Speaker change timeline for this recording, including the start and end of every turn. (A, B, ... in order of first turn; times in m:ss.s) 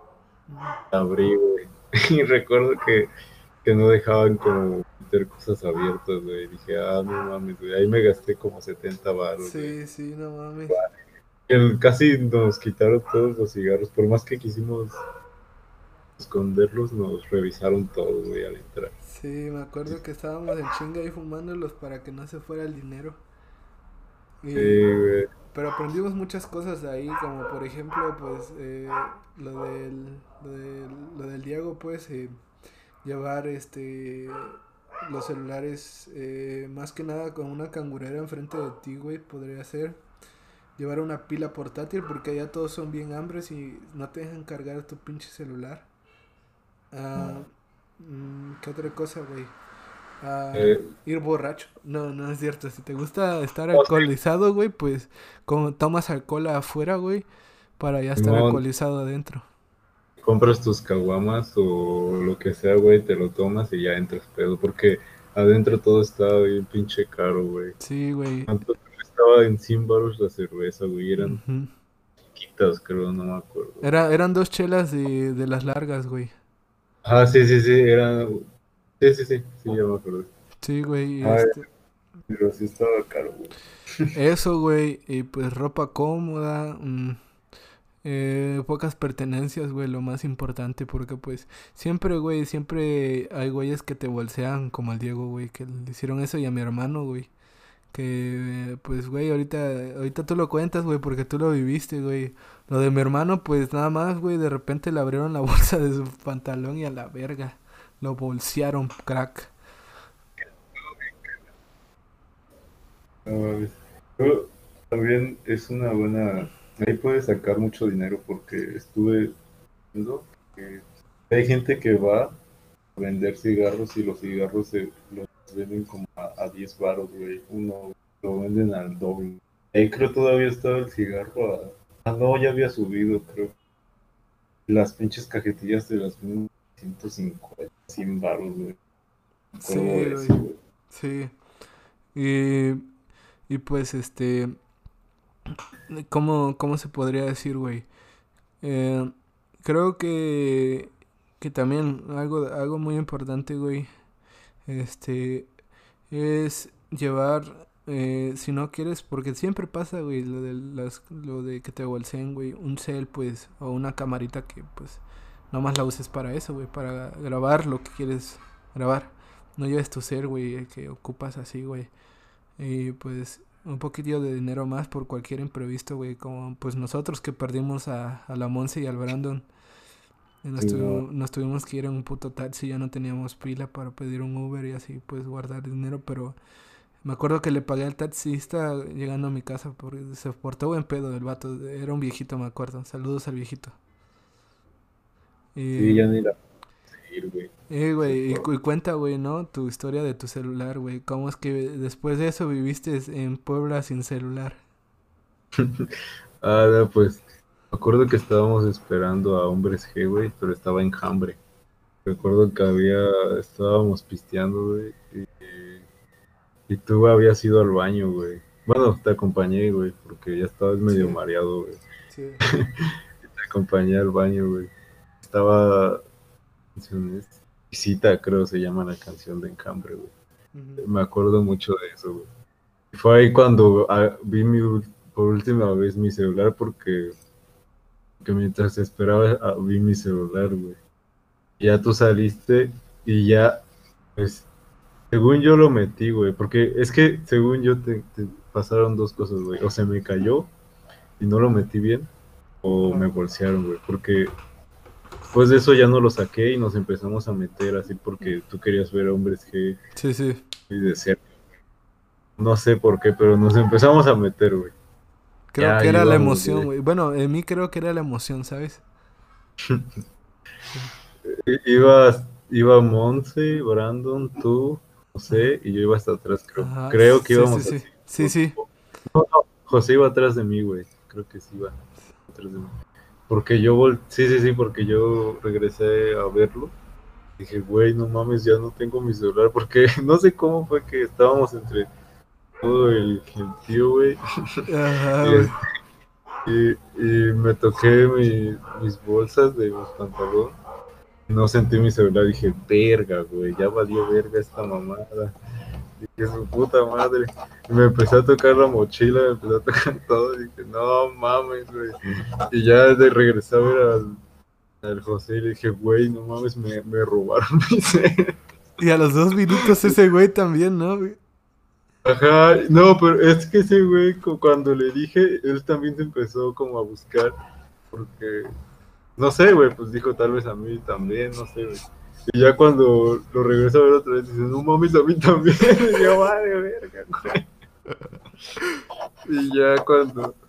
0:00.5-0:00.8 A
0:00.9-0:03.1 B
0:03.6-0:09.7 B
0:09.4-0:10.8 A
0:11.5-0:15.0 B
0:16.2-0:18.9 B
0:19.0-0:23.2 A
0:24.4-0:24.8 A
0:24.5-0:25.3 B
0:25.5-0:32.4 A
0:33.0-0:40.0 A
0:40.8-0:45.9 A
0:46.9-0:49.5 A
0:50.2-0:57.3 A
0:50.5-0:50.9 B
0:53.7-0:54.1 B
0:57.8-0:59.4 A
0:58.2-0:58.6 B
1:00.2-1:07.8 B
1:07.8-1:08.5 A
1:08.5-1:11.4 B
1:11.2-1:11.7 A
1:12.3-1:13.8 B
1:13.8-1:16.3 A
1:17.0-1:18.4 B
1:19.0-1:20.3 B
1:20.6-1:21.6 A
1:21.2-1:21.6 B
1:22.3-1:24.1 B
1:24.1-1:27.2 A
1:28.0-1:37.3 A
1:37.9-1:49.5 A
1:50.7-1:51.3 B
1:53.2-1:59.3 B
1:59.9-2:02.4 B
2:03.0-2:13.5 B
2:14.7-2:18.8 B
2:19.6-2:20.6 B
2:19.6-2:20.4 A
2:20.9-2:21.3 A
2:22.1-2:22.8 A
2:23.5-2:24.6 A
2:25.9-2:27.9 A
2:28.6-2:33.9 A
2:34.7-2:35.5 A
2:36.1-2:51.9 A
2:52.6-2:59.5 A
3:00.4-3:06.4 A
3:00.6-3:01.0 B
3:07.0-3:13.8 A
3:15.5-3:16.1 A
3:15.7-3:16.4 B
3:17.0-3:18.5 B
3:17.7-3:24.6 A
3:25.6-3:25.9 B
3:26.4-3:31.4 B
3:32.0-3:35.8 B
3:36.7-3:41.8 B
3:40.9-3:41.2 A
3:42.1-3:42.4 A
3:43.2-3:46.0 B
3:46.7-3:50.1 B
3:50.5-3:50.8 A
3:50.8-3:52.3 B
3:52.9-3:57.1 B
3:58.2-4:00.8 B
4:01.6-4:03.6 B
4:04.2-4:04.5 B
4:05.1-4:10.5 B
4:11.2-4:12.1 B
4:12.6-4:14.3 B
4:15.3-4:19.8 B
4:20.0-4:20.4 A
4:20.7-4:21.2 B
4:22.4-4:24.7 B
4:25.5-4:28.8 A
4:25.6-4:26.7 B
4:29.6-4:29.9 B
4:31.2-4:41.8 B
4:36.6-4:38.6 A
4:42.3-4:42.7 B
4:43.3-4:46.7 B
4:47.4-4:51.9 B
4:52.6-4:54.6 B
4:54.7-4:55.6 A
4:55.2-4:55.6 B
4:56.4-5:00.5 B
5:01.3-5:05.3 B
5:06.0-5:12.0 B
5:12.5-5:14.2 B
5:14.8-5:18.3 B
5:18.8-5:21.2 A
5:22.0-5:27.3 B
5:27.9-5:28.5 B
5:29.2-5:37.5 B
5:39.2-5:40.4 B